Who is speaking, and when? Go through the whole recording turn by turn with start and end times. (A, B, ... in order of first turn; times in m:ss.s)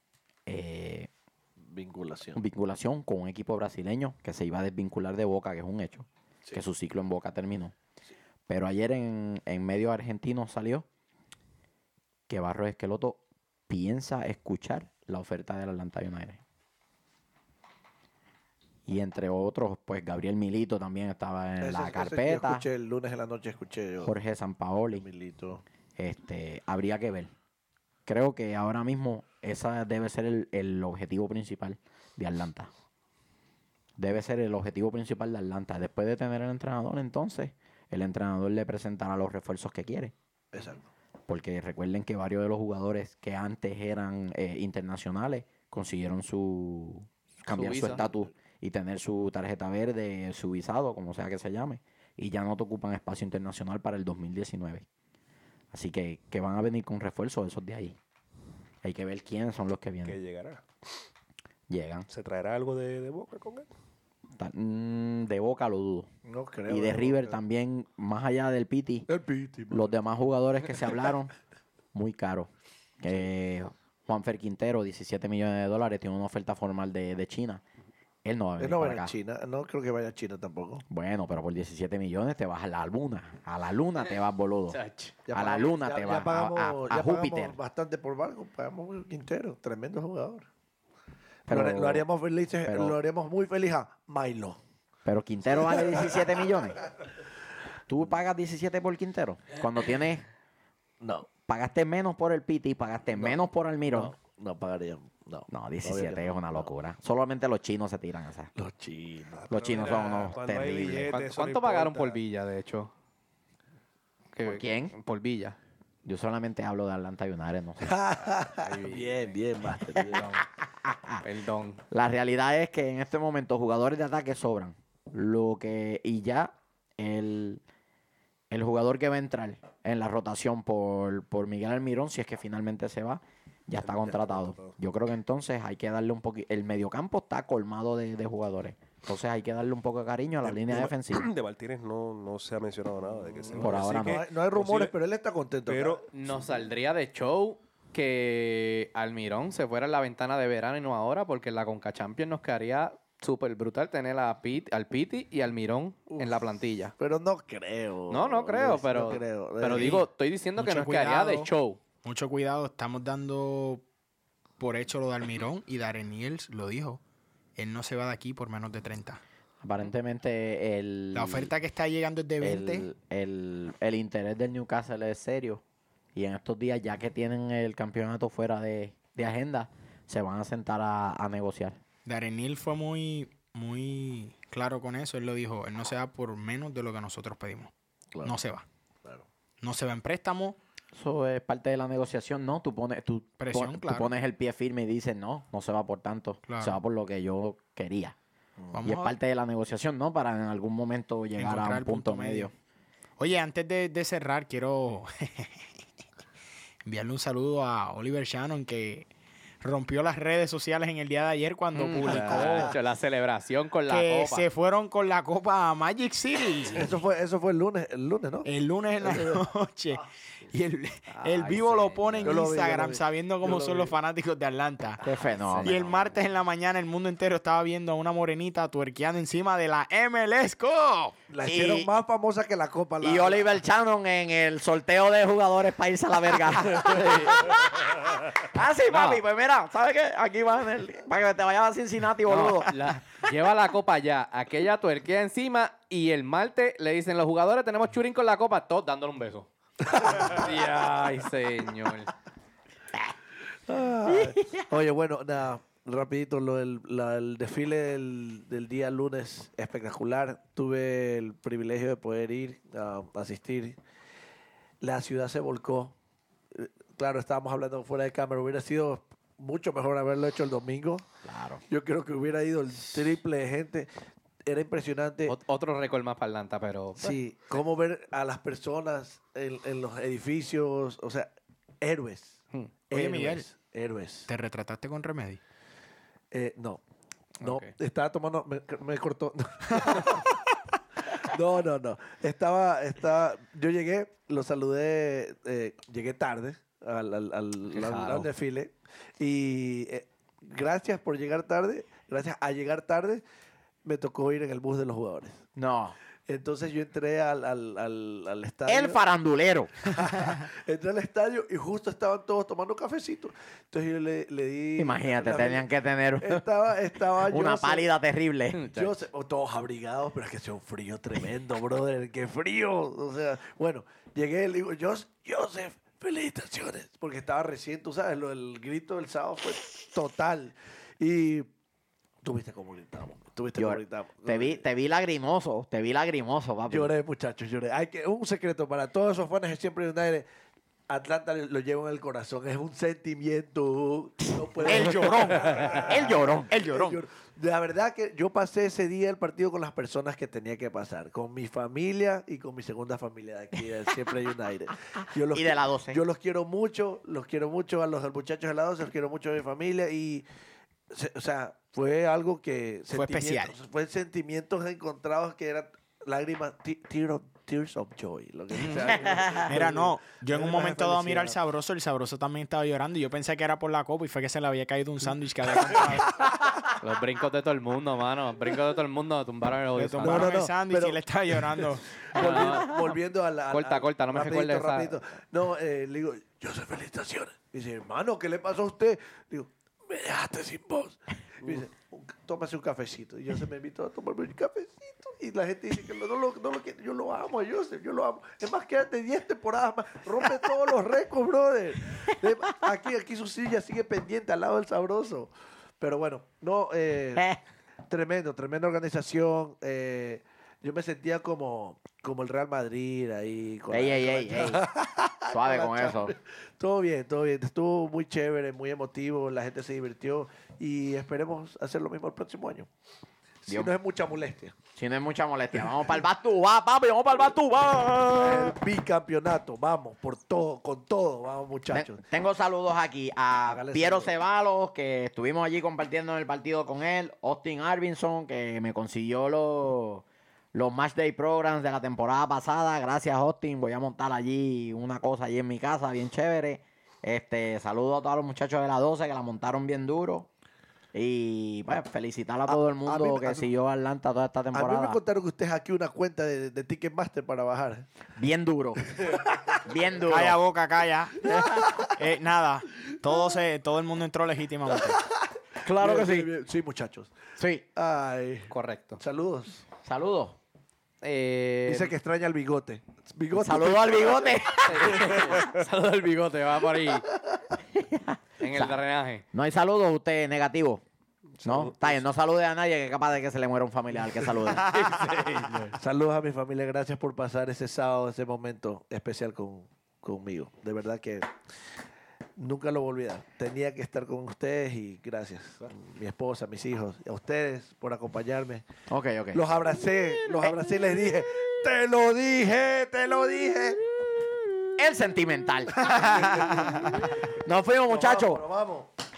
0:00.5-0:01.1 A
0:01.6-0:02.4 B
0:02.3-0:07.8 A
0:08.5-0:10.9 A
0:12.3-0:16.4 A
0:18.9-0:22.7 A
0:21.6-0:24.2 B
0:24.0-0:25.1 A
0:24.9-0:25.6 B
0:26.0-0:27.3 A
0:28.1-0:32.7 A
0:34.0-0:40.1 A
0:40.5-0:40.8 B
0:41.3-0:54.8 A
0:47.5-0:48.0 C
0:47.6-0:48.3 B
0:55.7-0:58.0 A
0:58.8-1:00.2 A
1:00.0-1:00.6 D
1:01.7-1:02.1 A
1:02.1-1:03.7 D
1:04.4-1:06.1 A
1:06.2-1:07.4 B
1:06.7-1:09.1 A
1:09.1-1:10.0 B
1:09.7-1:11.3 A
1:11.9-1:12.5 A
1:13.0-1:17.6 A
1:18.2-1:19.1 A
1:18.6-1:20.8 B
1:20.9-1:24.8 A
1:24.7-1:25.2 C
1:25.3-1:30.5 B
1:25.3-1:27.6 A
1:31.5-1:32.1 A
1:31.5-1:34.6 B
1:32.6-1:33.0 A
1:35.0-1:36.9 A
1:35.6-1:36.2 B
1:37.9-1:40.2 A
1:41.0-1:41.3 B
1:41.5-1:44.2 A
1:43.2-1:46.7 B
1:45.5-1:48.5 A
1:48.6-1:49.5 B
1:49.4-1:52.2 D
1:49.5-1:51.1 A
1:51.1-1:52.9 C
1:54.3-1:55.6 C
1:54.4-1:54.9 A
1:56.0-1:57.9 A
1:57.8-2:00.4 B
1:58.6-2:00.4 C
2:00.9-2:01.2 A
2:01.2-2:01.8 C
2:01.9-2:07.6 A
2:08.5-2:21.3 A
2:13.8-2:14.8 D
2:20.4-2:24.9 D
2:23.2-2:26.0 B
2:23.6-2:24.2 A
2:25.7-2:26.1 D
2:26.1-2:36.9 C
2:37.0-2:40.0 B
2:38.1-2:41.8 C
2:40.6-2:41.5 E
2:42.0-2:43.8 E
2:44.6-2:47.0 E
2:47.6-2:49.2 E
2:49.6-2:51.5 A
2:51.1-2:52.9 E
2:52.4-2:55.6 A
2:56.2-3:01.8 A
3:02.0-3:08.6 E
3:09.6-3:10.6 E
3:10.9-3:18.2 A
3:13.4-3:14.1 E
3:16.5-3:16.8 E
3:18.7-3:19.2 E
3:18.8-3:22.5 A
3:21.4-3:22.5 E
3:23.2-3:25.7 E
3:26.8-3:29.1 E
3:29.6-3:32.8 E
3:31.7-3:34.5 C
3:32.0-3:32.7 B
3:33.9-3:36.9 E
3:36.7-3:38.5 B
3:38.4-3:45.0 E
3:39.0-3:39.4 B
3:41.1-3:42.5 C
3:42.2-3:44.0 B
3:45.0-3:45.8 A
3:45.1-3:46.2 C
3:45.6-3:51.2 E
3:51.3-3:53.6 B
3:51.4-3:51.9 A
3:53.0-4:02.7 A
3:56.8-3:57.5 C
3:58.9-3:59.2 C
4:02.3-4:12.2 C
4:09.8-4:10.4 B
4:13.7-4:23.8 B
4:24.8-4:26.0 B
4:26.5-4:31.0 B
4:31.2-4:31.6 A
4:31.7-4:33.9 B
4:34.4-4:35.4 B
4:35.3-4:37.2 C
4:37.0-4:44.3 B
4:42.9-4:43.5 E
4:44.3-4:45.4 E
4:46.3-4:46.8 B
4:47.4-4:50.4 B
4:47.4-4:47.7 C
4:51.1-5:03.2 B
4:57.8-4:58.2 C
5:03.8-5:05.4 B
5:05.6-5:06.0 A
5:06.3-5:09.0 B
5:08.7-5:10.0 A
5:09.8-5:15.7 B
5:14.8-5:16.4 A
5:16.2-5:17.9 B
5:17.2-5:18.6 A
5:18.5-5:19.0 C
5:18.7-5:31.5 B
5:32.2-5:34.6 B
5:33.6-5:36.9 A
5:36.7-5:40.3 B
5:40.9-6:00.3 B
5:44.3-5:47.0 A
5:44.6-5:45.8 E
5:46.5-5:46.9 E
5:55.3-5:56.0 A
6:00.9-6:11.4 B
6:02.9-6:03.5 E
6:09.4-6:16.3 E
6:16.8-6:20.4 C
6:19.8-6:22.4 E
6:20.0-6:47.2 B
6:22.1-6:23.0 C
6:23.5-6:25.0 C
6:47.2-6:47.4 A
6:47.9-7:02.7 B
6:53.7-6:54.7 A
6:55.3-6:56.1 A
7:03.4-7:04.6 B
7:04.8-7:08.6 A
7:08.2-7:12.0 B
7:11.7-7:30.3 A
7:13.5-7:14.2 B
7:30.9-7:35.0 A
7:32.5-7:33.5 B
7:34.5-7:37.9 B
7:38.2-7:39.1 A
7:39.0-7:39.6 B
7:39.6-7:40.4 A
7:40.0-7:45.1 E
7:41.3-7:41.9 B
7:45.6-7:46.3 A
7:45.7-7:47.1 B
7:47.4-7:47.6 A
7:47.8-7:49.6 B
7:48.5-7:49.0 C
7:49.8-7:50.4 A
7:51.0-7:51.9 C
7:51.7-7:55.5 B
7:53.3-7:55.3 A
7:54.6-7:57.1 C
7:57.1-7:57.4 B
7:57.7-7:58.8 A
7:58.4-7:59.2 C
7:59.3-8:00.8 A
8:01.4-8:02.1 D
8:01.4-8:04.7 A
8:04.6-8:05.8 C
8:05.7-8:11.3 B
8:12.4-8:18.6 B
8:18.9-8:19.4 A
8:19.3-8:23.8 B
8:24.8-8:26.9 A
8:25.8-8:27.0 B
8:27.4-8:28.4 A
8:27.9-8:28.9 B